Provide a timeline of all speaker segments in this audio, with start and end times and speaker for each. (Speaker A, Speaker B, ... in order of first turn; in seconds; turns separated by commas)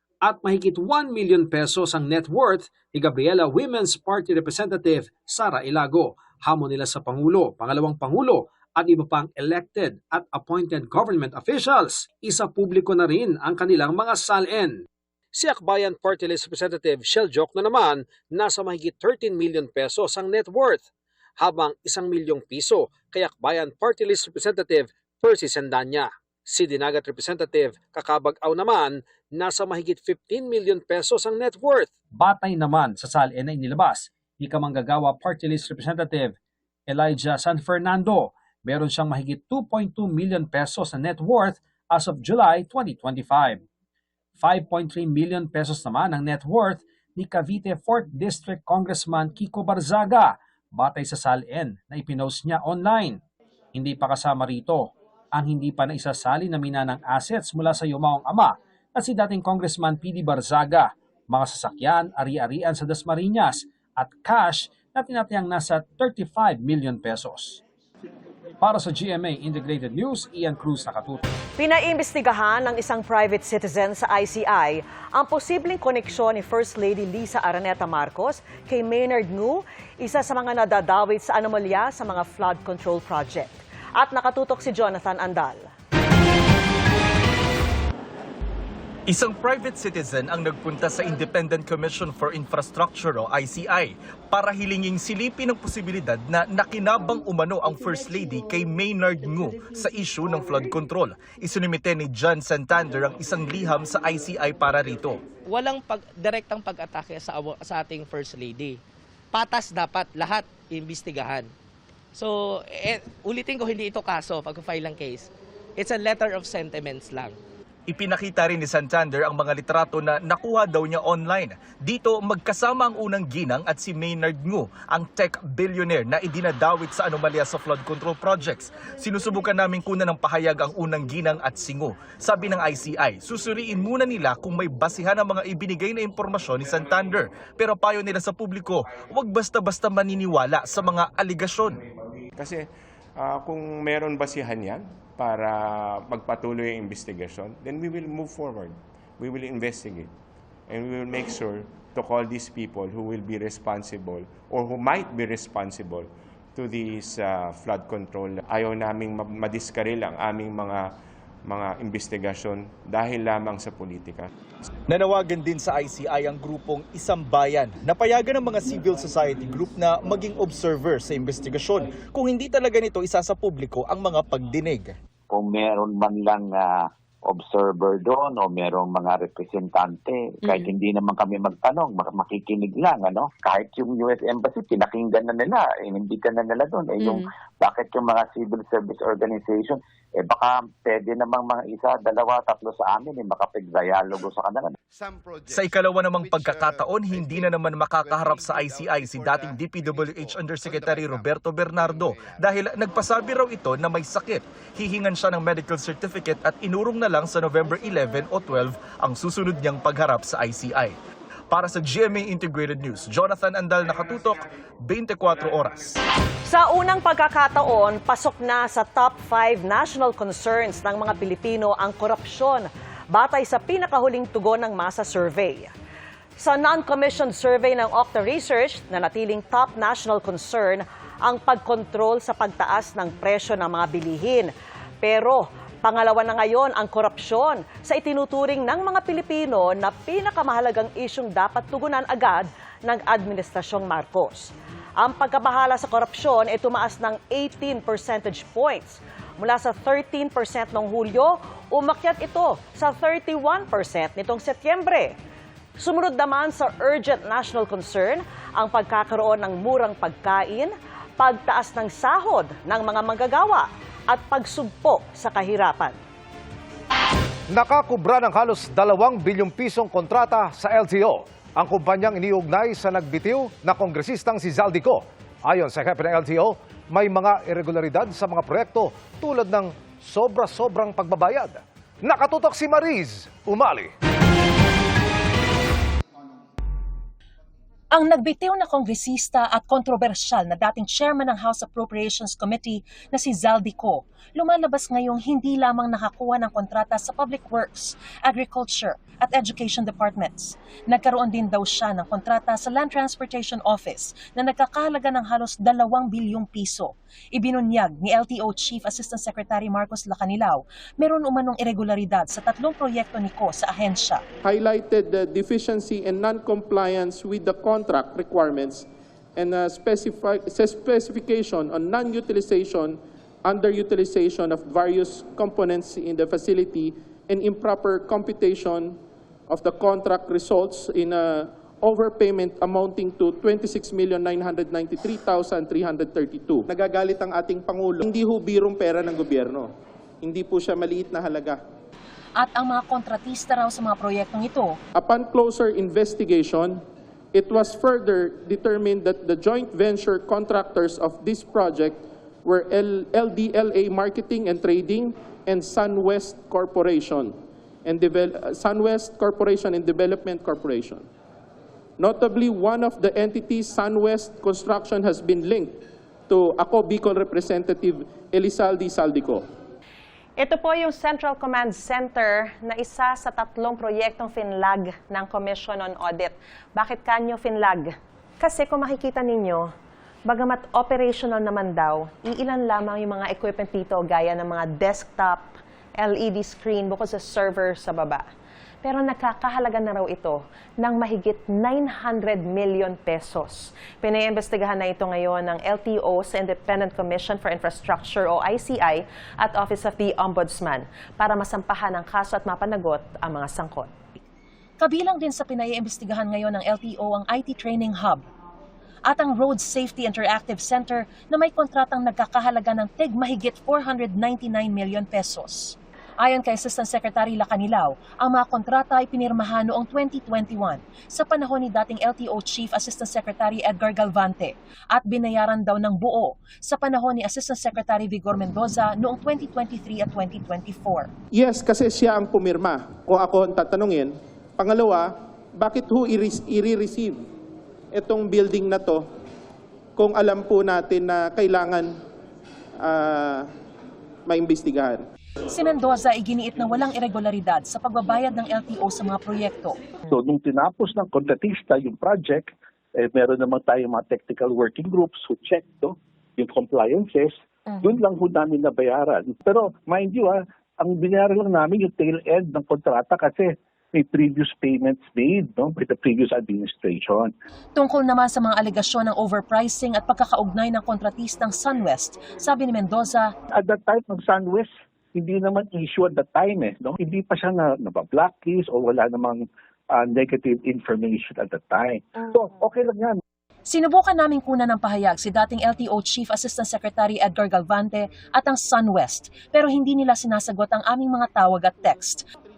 Speaker A: 0.2-14.8, Speaker A: 15.3-20.9, Speaker A: 21.4-36.3, Speaker A: 36.9-43.6, Speaker A: 44.4-53.2, Speaker A: 53.7-67.6, Speaker A: 68.6-71.2, Speaker B: 71.6-85.7, Speaker C: 89.1-105.2, Speaker D: 105.5-108.8, Speaker D: 109.3-111.5, Speaker D: 112.2-117.4, Speaker C: 117.9-141.9, Speaker E: 142.3-142.6, Speaker E: 143.2-150.1, Speaker E: 150.7-160.8, Speaker E: 161.5-164.3, Speaker C: 164.9-174.9, Speaker F: 175.3-194.7, Speaker C: 195.5-211.0, Speaker C: 211.5-216.0, Speaker B: 216.5-225.7, Speaker B: 226.4-234.5, Speaker B: 235.0-255.2, Speaker B: 255.8-266.0, Speaker G: 267.5-283.9, Speaker H: 287.9-314.2, Speaker I: 314.4-329.0, Speaker I: 329.5-339.7, Speaker I: 340.2-341.6, Speaker H: 342.4-344.8, Speaker I: 345.0-346.8, Speaker I: 347.3-361.1, Speaker I: 362.0-369.4, Speaker J: 370.4-379.7, Speaker J: 380.3-388.3, Speaker J: 388.8-403.9, Speaker H: 404.8-408.2, Speaker H: 409.1-431.1, Speaker I: 431.4-437.2, Speaker I: 437.9-439.1, Speaker I: 440.0-441.9, Speaker I: 442.8-443.5, Speaker I: 444.3-445.0, Speaker H: 445.5-449.8, Speaker K: 450.1-457.3, Speaker K: 457.8-467.3, Speaker H: 467.8-473.3, Speaker K: 473.5-483.2, Speaker H: 483.7-492.2